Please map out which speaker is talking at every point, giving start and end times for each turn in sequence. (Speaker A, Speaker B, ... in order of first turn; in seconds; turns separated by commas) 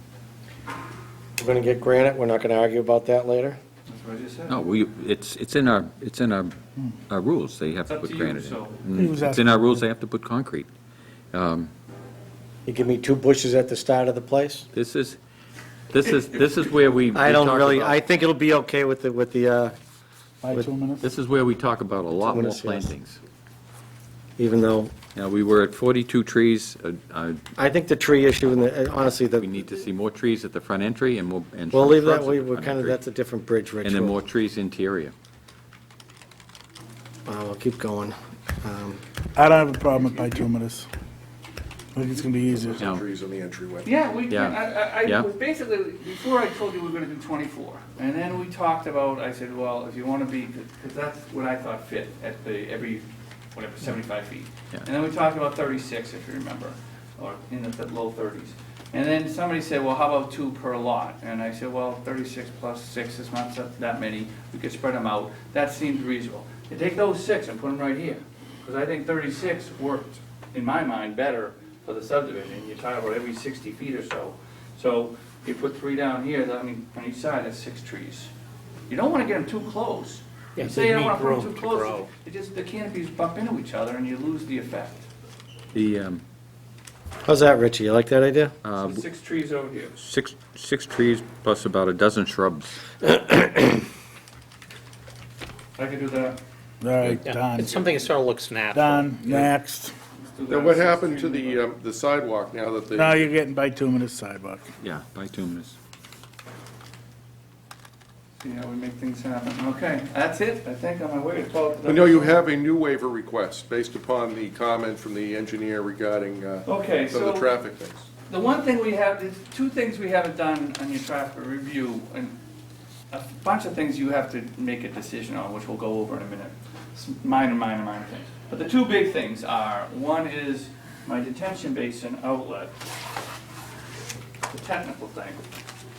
Speaker A: 1.4-3.6, Speaker B: 3.9-4.6, Speaker C: 4.5-6.5, Speaker C: 7.1-10.7, Speaker B: 7.9-8.8, Speaker D: 8.9-9.8, Speaker C: 11.3-11.7, Speaker A: 12.7-14.7, Speaker C: 14.7-15.2, Speaker C: 15.9-18.0, Speaker A: 17.1-19.8, Speaker D: 20.4-21.0, Speaker C: 21.0-23.2, Speaker A: 22.2-22.9, Speaker A: 24.4-24.9, Speaker C: 25.1-27.4, Speaker A: 27.6-29.5, Speaker C: 29.3-33.0, Speaker A: 31.7-34.1, Speaker C: 33.8-35.1, Speaker A: 37.2-39.0, Speaker D: 39.4-40.9, Speaker D: 41.9-42.9, Speaker E: 42.5-43.9, Speaker C: 42.8-43.0, Speaker B: 43.8-78.3, Speaker C: 44.3-45.3, Speaker B: 78.9-85.0, Speaker F: 80.5-82.1, Speaker C: 85.7-86.2, Speaker A: 87.2-88.5, Speaker C: 88.6-89.0, Speaker B: 88.8-89.9, Speaker C: 90.0-92.8, Speaker B: 95.8-96.4, Speaker D: 96.8-97.8, Speaker F: 97.1-99.1, Speaker D: 98.7-99.9, Speaker B: 99.2-99.5, Speaker B: 100.2-101.6, Speaker E: 100.5-103.3, Speaker D: 102.9-104.7, Speaker C: 104.8-105.8, Speaker B: 108.4-112.4, Speaker E: 111.8-118.1, Speaker B: 116.7-117.5, Speaker B: 118.3-122.3, Speaker B: 123.1-132.8, Speaker B: 134.5-135.4